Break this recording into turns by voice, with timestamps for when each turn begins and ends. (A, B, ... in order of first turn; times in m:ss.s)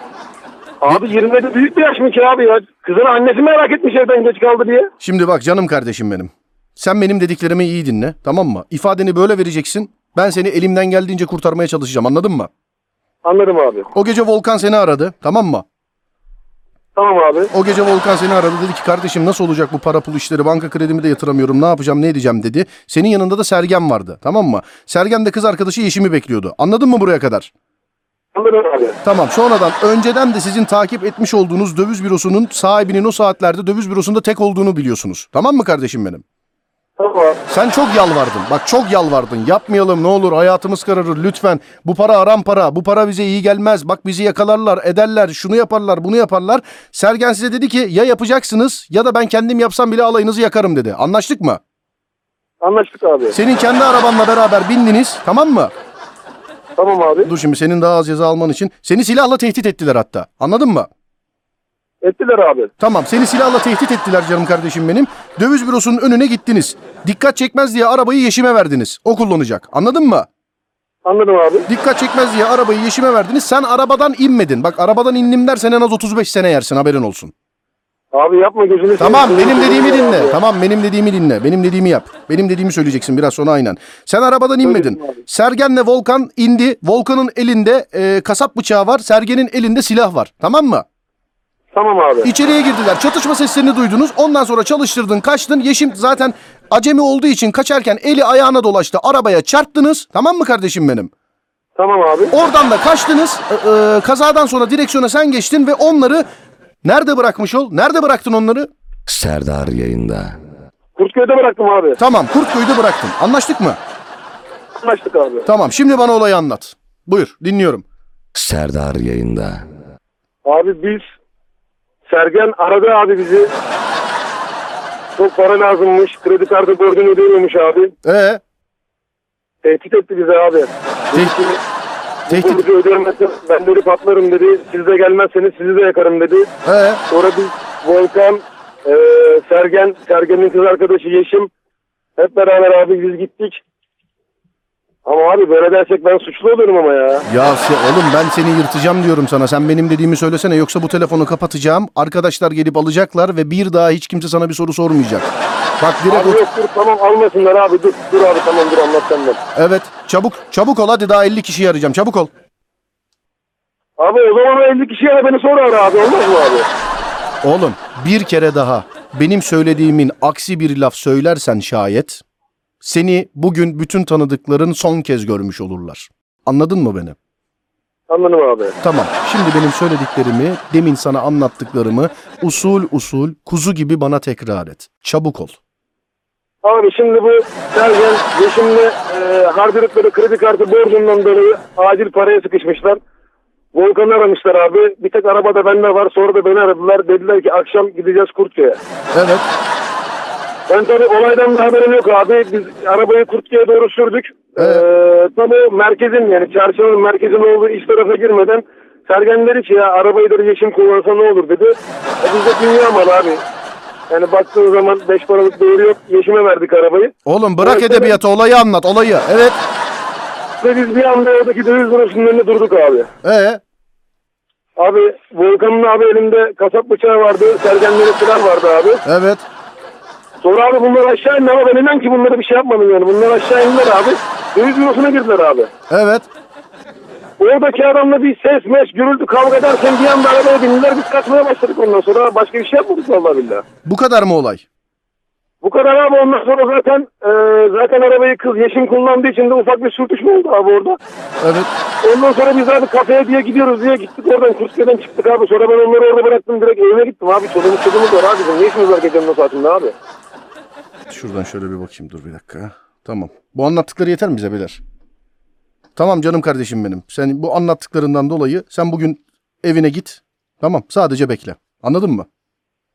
0:00.8-0:04.9 A
0:05.0-0:12.5 B
0:13.2-0:13.9 A
0:13.9-0:15.6 B
0:16.9-0:17.5 A
0:17.5-0:27.5 B
0:28.3-0:29.0 A
0:29.0-0:36.2 B
0:37.0-0:37.4 A
0:37.5-0:51.6 B
0:52.6-0:53.4 A
0:53.3-0:55.7 B
0:56.8-0:57.3 A
0:57.2-1:00.9 B
1:02.0-1:02.7 A
1:02.8-1:10.3 B
1:11.0-1:11.7 A
1:11.7-1:17.3 B
1:18.1-1:20.4 A
1:19.0-1:30.8 B
1:24.6-1:25.2 A
1:31.7-1:32.3 A
1:32.2-1:41.1 B
1:41.8-1:42.3 A
1:42.3-1:46.2 B
1:46.8-1:48.7 B
1:49.1-1:50.4 C
1:51.0-1:52.0 A
1:52.0-1:53.8 B
1:54.8-1:55.4 A
1:55.4-1:57.8 B
1:58.3-1:59.6 C
2:00.4-2:01.0 A
2:02.1-2:03.5 A
2:05.2-2:07.9 A
2:08.0-2:08.4 B
2:09.6-2:11.6 A
2:12.3-2:16.5 A
2:12.3-2:12.6 B
2:16.6-2:17.0 B
2:17.1-2:21.5 A
2:22.2-2:23.6 A
2:25.0-2:27.2 A
2:27.2-2:35.3 B
2:35.8-2:36.4 B
2:36.1-2:39.4 A
2:39.5-2:42.3 B
2:44.0-2:46.7 A
2:47.4-2:52.2 B
2:52.8-2:57.2 B
2:58.1-2:58.7 A
2:58.8-3:05.5 B
3:06.6-3:13.0 A
3:13.7-3:18.8 A
3:19.1-3:19.4 B
3:20.7-3:33.4 A
3:24.6-3:24.8 B
3:34.1-3:38.2 A
3:37.2-3:39.6 B
3:40.6-3:43.1 A
3:43.2-3:43.6 B
3:44.8-3:49.0 A
3:49.0-3:49.4 B
3:50.4-3:55.7 A
3:55.9-3:56.3 B
3:57.4-4:03.6 A
4:03.8-4:04.6 B
4:05.6-4:11.0 A
4:11.4-4:11.7 B
4:12.0-4:19.9 A
4:21.1-4:24.8 B
4:26.0-4:32.2 B